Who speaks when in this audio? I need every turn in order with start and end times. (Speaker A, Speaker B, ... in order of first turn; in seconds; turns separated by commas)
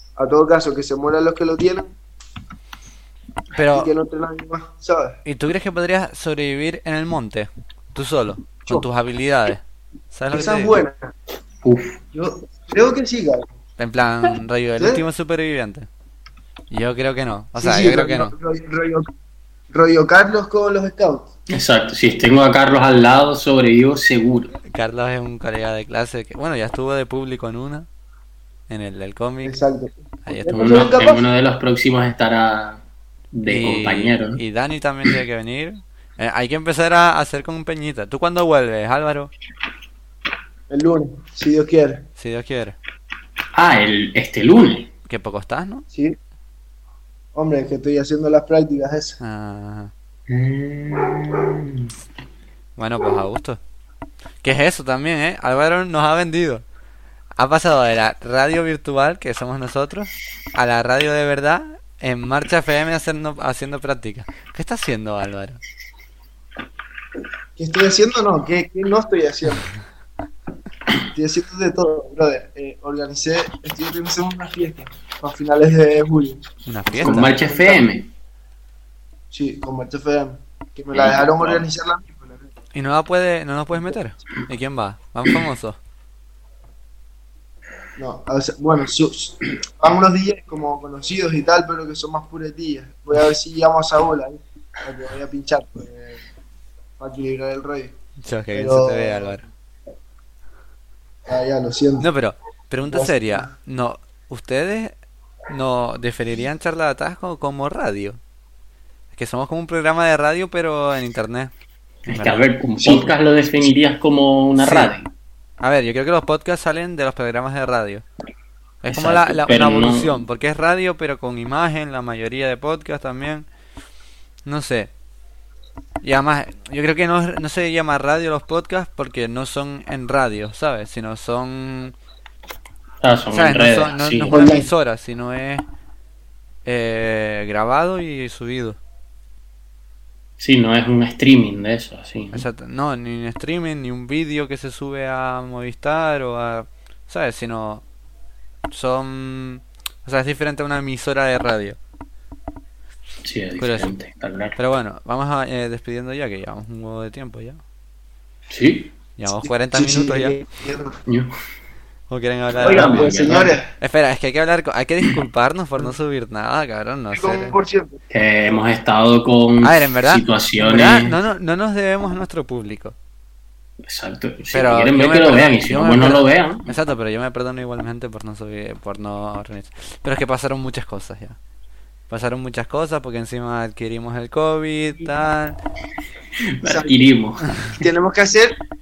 Speaker A: 0.2-1.9, Speaker B: 3.5-3.9, Speaker A: 3.7-5.2, Speaker B: 5.2-10.8, Speaker A: 10.3-11.1, Speaker C: 11.6-12.0, Speaker A: 12.1-13.5, Speaker B: 13.8-15.9, Speaker A: 14.8-15.0, Speaker B: 16.7-18.3, Speaker A: 17.6-19.1, Speaker A: 19.7-21.3, Speaker C: 21.5-24.5, Speaker B: 24.7-27.9, Speaker B: 28.7-29.5, Speaker A: 29.4-31.2, Speaker B: 30.2-30.9, Speaker C: 30.5-32.8, Speaker C: 33.3-34.4, Speaker B: 33.5-39.3, Speaker A: 40.7-42.0, Speaker B: 42.2-42.8, Speaker C: 43.5-44.9, Speaker B: 45.0-45.9, Speaker A: 47.3-49.2, Speaker B: 49.2-49.9, Speaker C: 50.3-51.9, Speaker B: 52.8-53.6, Speaker B: 54.4-56.6, Speaker B: 57.4-65.6, Speaker A: 67.6-69.6, Speaker A: 71.1-76.4, Speaker B: 76.7-77.3, Speaker C: 77.0-78.1, Speaker A: 77.0-77.8, Speaker A: 79.3-82.5, Speaker C: 80.9-81.6, Speaker B: 82.7-85.8, Speaker A: 88.0-96.2, Speaker A: 97.0-97.9, Speaker B: 98.2-99.4, Speaker A: 98.5-99.5, Speaker A: 101.3-102.1, Speaker B: 102.0-104.9, Speaker A: 102.8-103.5, Speaker B: 105.5-108.2, Speaker B: 109.1-111.5, Speaker B: 112.1-112.4, Speaker C: 112.1-115.1, Speaker B: 114.6-114.9, Speaker B: 115.6-118.0, Speaker B: 118.8-123.5, Speaker C: 118.9-120.2, Speaker B: 124.4-124.9, Speaker B: 126.0-131.9, Speaker C: 133.0-134.5, Speaker B: 133.3-135.6, Speaker A: 134.3-134.7, Speaker B: 136.6-138.8, Speaker C: 140.4-142.4, Speaker B: 142.3-147.8, Speaker B: 148.7-151.8, Speaker C: 153.2-154.6, Speaker B: 153.6-153.9, Speaker B: 154.6-157.6, Speaker C: 158.5-158.9, Speaker B: 159.2-160.4, Speaker A: 159.4-160.9, Speaker C: 161.1-161.3, Speaker B: 162.1-167.6, Speaker C: 162.5-163.6, Speaker A: 162.6-163.7, Speaker A: 167.1-168.0, Speaker C: 168.1-171.2, Speaker B: 169.6-172.9, Speaker C: 173.8-176.7, Speaker B: 174.5-181.4, Speaker B: 182.1-185.6, Speaker C: 186.5-187.5, Speaker A: 186.6-187.0, Speaker A: 187.7-188.6